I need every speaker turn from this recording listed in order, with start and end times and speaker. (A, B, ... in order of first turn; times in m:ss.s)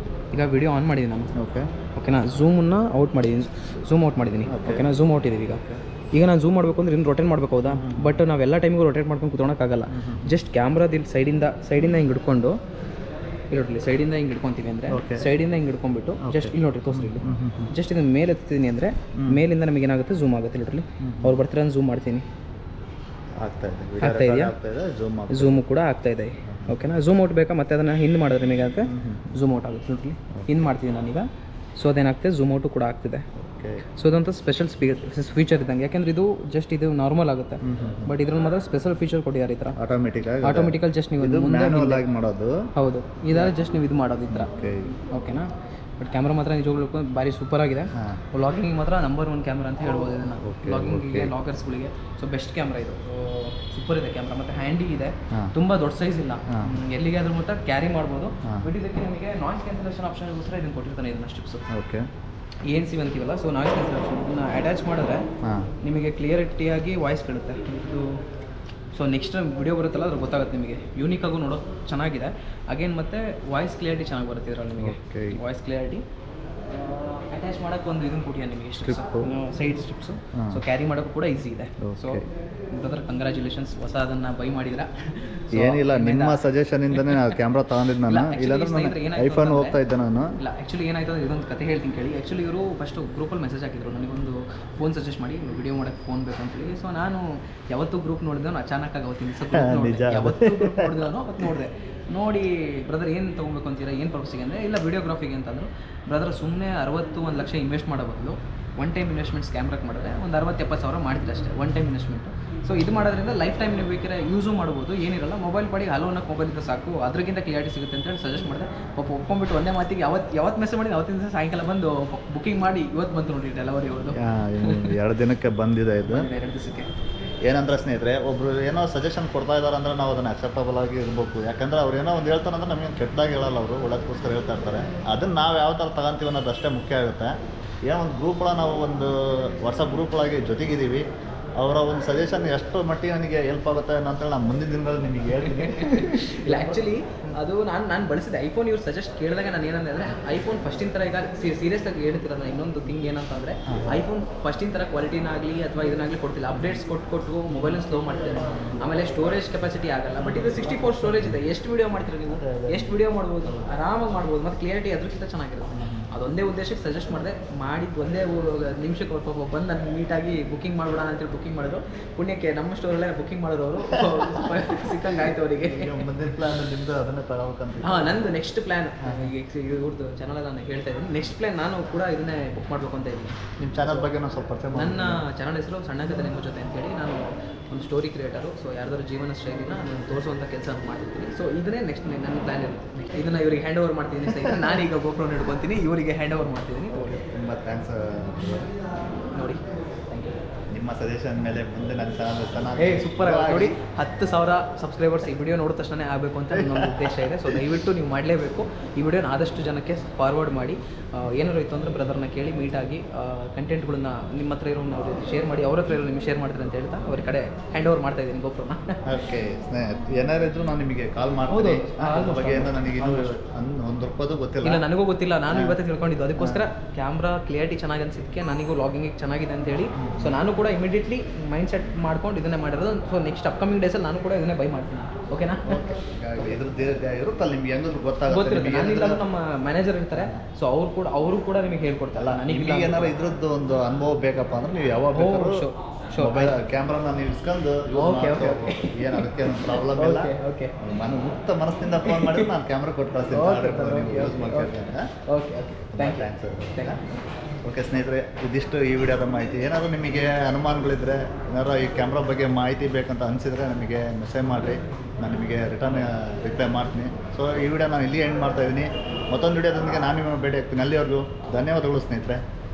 0:00.3-0:01.3 A
0:01.4-0:01.7 B
0:01.9-0:12.6 A
0:04.5-0:04.9 B
0:07.7-0:08.2 B
0:09.9-0:10.4 B
0:13.5-0:22.2 A
0:14.9-0:15.3 B
0:16.2-0:17.7 B
0:19.2-0:19.4 B
0:21.0-0:21.4 B
0:23.4-0:25.6 B
0:24.0-0:24.5 A
0:25.3-0:33.2 A
0:28.8-0:29.2 B
0:30.4-0:30.6 B
0:33.4-0:33.8 B
0:33.8-0:39.8 A
0:37.6-0:38.1 B
0:39.8-0:42.7 B
0:40.4-0:42.0 A
0:42.7-0:44.5 A
0:43.3-0:43.6 B
0:44.3-0:45.0 B
0:45.0-1:01.6 A
0:50.4-0:51.3 B
0:56.5-0:56.7 B
1:01.7-1:02.1 B
1:02.7-1:05.3 A
1:05.4-1:05.7 B
1:05.8-1:08.2 A
1:08.9-1:16.0 A
1:14.8-1:15.4 B
1:16.8-1:26.4 A
1:18.8-1:19.3 B
1:20.4-1:20.6 B
1:21.8-1:22.2 B
1:25.5-1:30.3 B
1:26.9-1:27.3 A
1:28.0-1:29.8 A
1:30.4-2:05.0 A
1:39.5-1:41.1 B
2:04.1-2:06.3 B
2:06.1-2:06.9 A
2:07.4-2:17.3 B
2:17.8-2:21.0 B
2:21.6-2:26.9 B
2:25.3-2:56.1 A
2:33.7-2:34.0 B
2:40.3-2:41.4 B
2:42.3-2:43.7 B
2:45.7-2:46.1 B
2:53.9-2:58.2 B
2:57.8-3:04.1 A
2:59.0-2:59.3 B
3:03.6-3:05.2 B
3:04.7-3:17.2 A
3:14.3-3:14.7 B
3:17.0-3:18.7 B
3:19.3-3:20.4 A
3:20.7-3:23.8 B
3:22.8-3:39.2 A
3:26.5-3:27.5 B
3:39.0-3:44.8 B
3:41.5-3:43.3 A
3:44.6-3:56.0 A
3:45.5-3:45.8 B
3:46.4-3:46.6 B
3:50.0-3:50.4 B
3:55.6-3:59.2 B
3:58.3-4:03.1 A
4:00.1-4:00.4 B
4:02.1-4:05.7 B
4:05.1-4:06.6 A
4:06.2-4:15.1 B
4:07.9-4:10.7 A
4:12.0-4:12.5 A
4:13.3-4:17.1 A
4:15.9-4:17.0 B
4:17.6-4:32.4 B